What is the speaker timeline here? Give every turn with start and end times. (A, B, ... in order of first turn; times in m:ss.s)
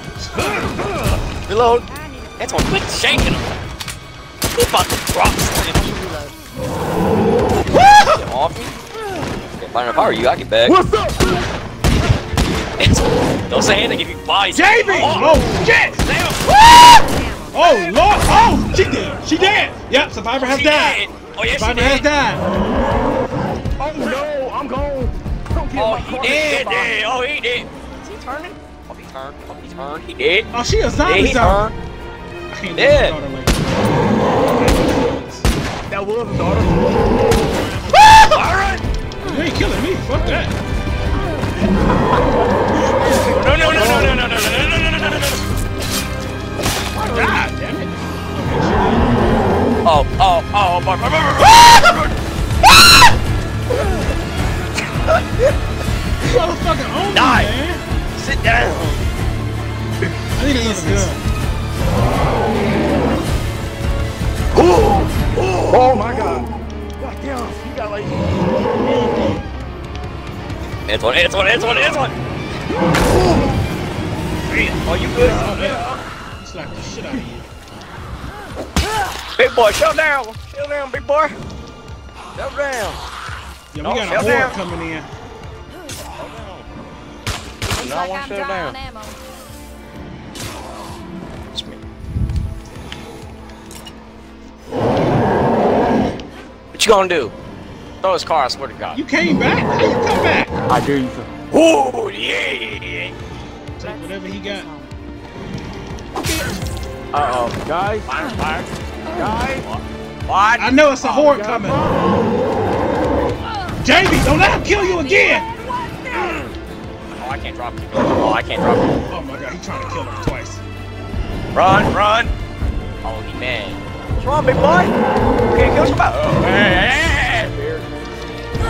0:00.4-0:01.9 A
0:01.8-0:03.5 B
0:02.4-0:03.6 A
0:04.6-0:05.9 A
0:05.6-0:06.4 B
0:07.7-0:08.2 C
0:08.0-0:08.8 A
0:09.6-0:10.8 A
0:10.6-0:11.5 D
0:12.8-0:17.0 A
0:14.5-0:16.0 C
0:15.1-0:15.6 D
0:16.8-0:18.6 B
0:17.5-0:22.7 C
0:20.4-0:22.0 A
0:23.8-0:27.0 D
0:25.7-0:30.5 A
0:26.2-0:26.6 B
0:30.5-0:31.7 C
0:31.0-0:31.8 A
0:32.5-0:35.5 C
0:32.8-0:33.2 A
0:35.9-0:37.3 D
0:38.0-0:38.8 A
0:39.2-0:40.6 C
0:41.2-0:44.2 D
0:42.9-0:44.2 C
0:43.2-0:45.4 A
0:46.9-0:47.5 D
0:47.0-0:49.3 C
0:49.8-0:52.1 A
0:56.2-0:57.8 C
0:57.1-0:57.5 A
0:58.2-0:58.9 A
0:58.7-0:59.0 C
1:00.3-1:01.2 C
1:00.5-1:01.1 A
1:04.5-1:06.1 A
1:05.7-1:08.5 D
1:10.9-1:12.2 A
1:14.5-1:16.0 A
1:14.5-1:15.8 C
1:15.2-1:15.9 D
1:16.4-1:17.5 C
1:19.2-1:21.4 A
1:22.3-1:23.0 A
1:23.7-1:25.1 C
1:23.8-1:24.6 A
1:26.2-1:26.7 A
1:27.6-1:28.7 A
1:27.7-1:29.2 B
1:31.5-1:31.8 A
1:36.7-1:37.3 A
1:38.0-1:39.0 A
1:38.9-1:40.5 C
1:40.7-1:41.4 D
1:41.5-1:43.1 A
1:43.8-1:44.7 C
1:43.8-1:44.9 B
1:46.2-1:46.5 C
1:47.1-1:48.5 D
1:48.1-1:50.7 A
1:49.0-1:49.7 D
1:50.6-1:51.9 C
1:51.0-1:52.3 D
1:53.8-1:55.4 C
1:54.5-1:55.5 B
1:56.1-1:56.5 A
1:57.2-1:59.0 A
1:59.1-2:00.6 C
2:01.5-2:02.3 A
2:03.0-2:04.9 A
2:05.5-2:07.5 A
2:06.4-2:08.2 D